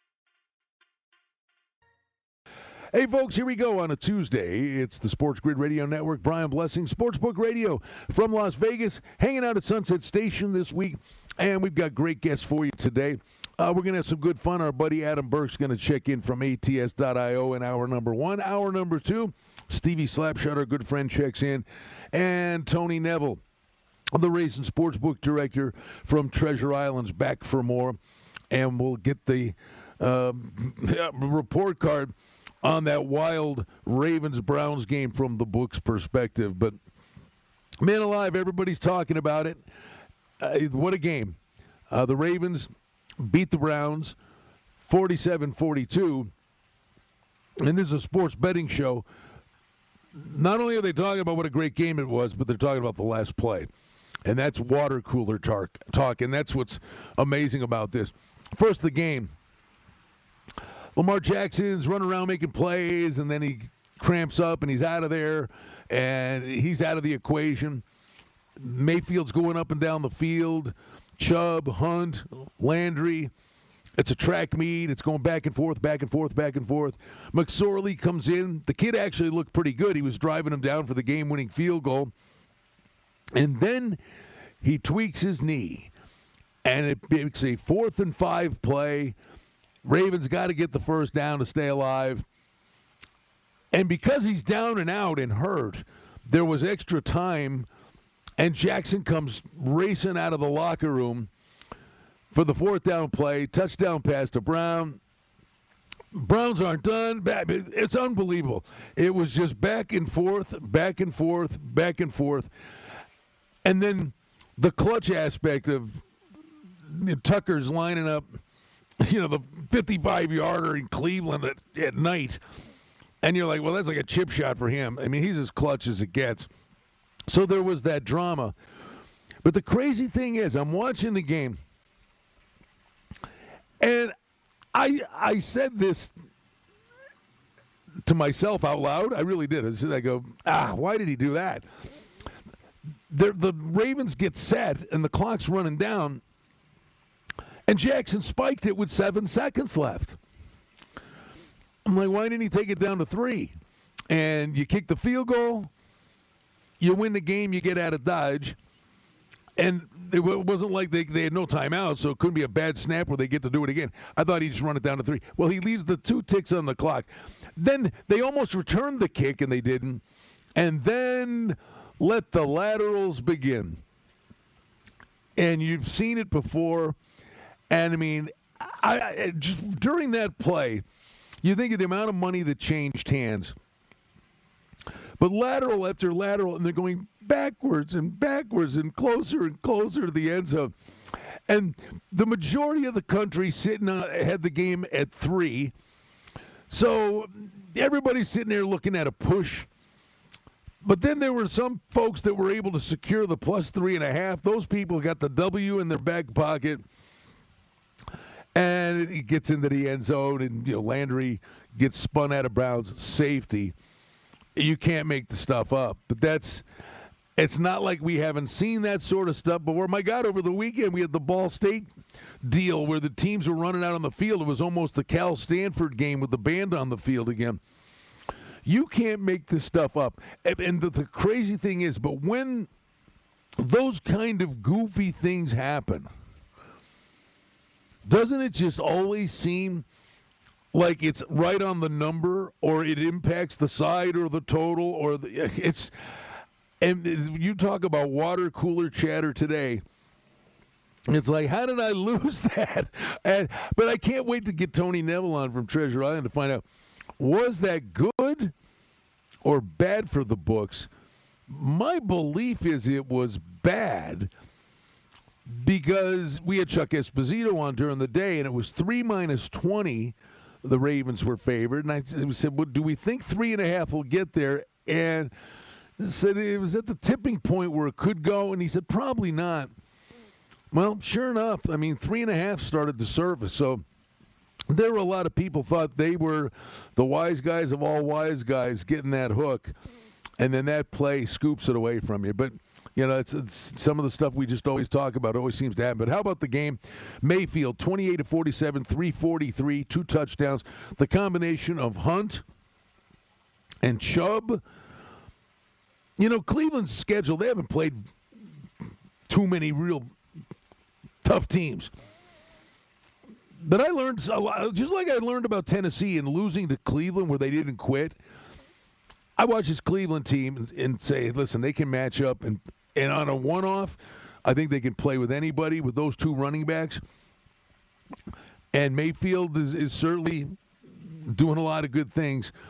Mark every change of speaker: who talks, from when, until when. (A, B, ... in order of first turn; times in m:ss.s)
0:02.9-0:23.4 A
0:24.1-0:28.0 A
0:28.5-0:36.8 A
0:37.8-0:39.6 A
0:40.4-0:41.4 A
0:41.9-0:42.7 A
0:43.2-0:44.2 A
0:44.8-0:46.3 A
0:47.6-0:49.0 A
0:50.1-0:53.7 A
0:54.2-0:59.3 A
1:01.0-1:07.8 A
1:08.6-1:13.3 A
1:14.0-1:22.1 A
1:23.3-1:24.0 A
1:24.6-1:25.9 A
1:26.6-1:29.1 A
1:29.8-1:32.2 A
1:33.7-1:37.7 A
1:38.4-1:41.3 A
1:42.3-1:45.0 A
1:46.1-1:52.5 A
1:53.6-1:56.0 A
1:56.8-1:58.4 A
1:59.0-2:02.4 A
2:03.2-2:06.5 A
2:07.3-2:08.5 A
2:09.4-2:11.6 A
2:13.8-2:14.1 A
2:14.7-2:16.1 A
2:18.0-2:21.6 A
2:23.1-2:26.2 A
2:27.7-2:30.2 A
2:31.8-2:33.5 A
2:34.1-2:35.7 A
2:36.8-2:38.6 A
2:39.6-2:50.0 A
2:50.6-2:53.8 A
2:55.4-2:57.0 A
2:57.7-3:00.8 A
3:01.4-3:03.6 A
3:05.2-3:10.7 A
3:11.5-3:15.7 A
3:16.7-3:19.7 A
3:20.8-3:26.8 A
3:28.5-3:33.7 A
3:34.5-3:36.6 A
3:37.4-3:41.9 A
3:42.4-3:47.6 A
3:48.6-3:52.7 A
3:53.6-3:56.1 A
3:58.0-3:59.8 A
4:00.7-4:09.8 A
4:11.1-4:16.6 A
4:17.2-4:18.5 A
4:19.4-4:20.9 A
4:21.5-4:24.3 A
4:25.4-4:35.3 A
4:36.0-4:39.7 A
4:40.7-4:43.8 A
4:44.7-4:49.7 A
4:50.4-5:02.4 A
5:03.8-5:04.6 A
5:06.2-5:08.1 A
5:09.3-5:10.1 A
5:11.2-5:11.9 A
5:13.6-5:18.2 A
5:19.4-5:27.0 A
5:28.7-5:32.5 A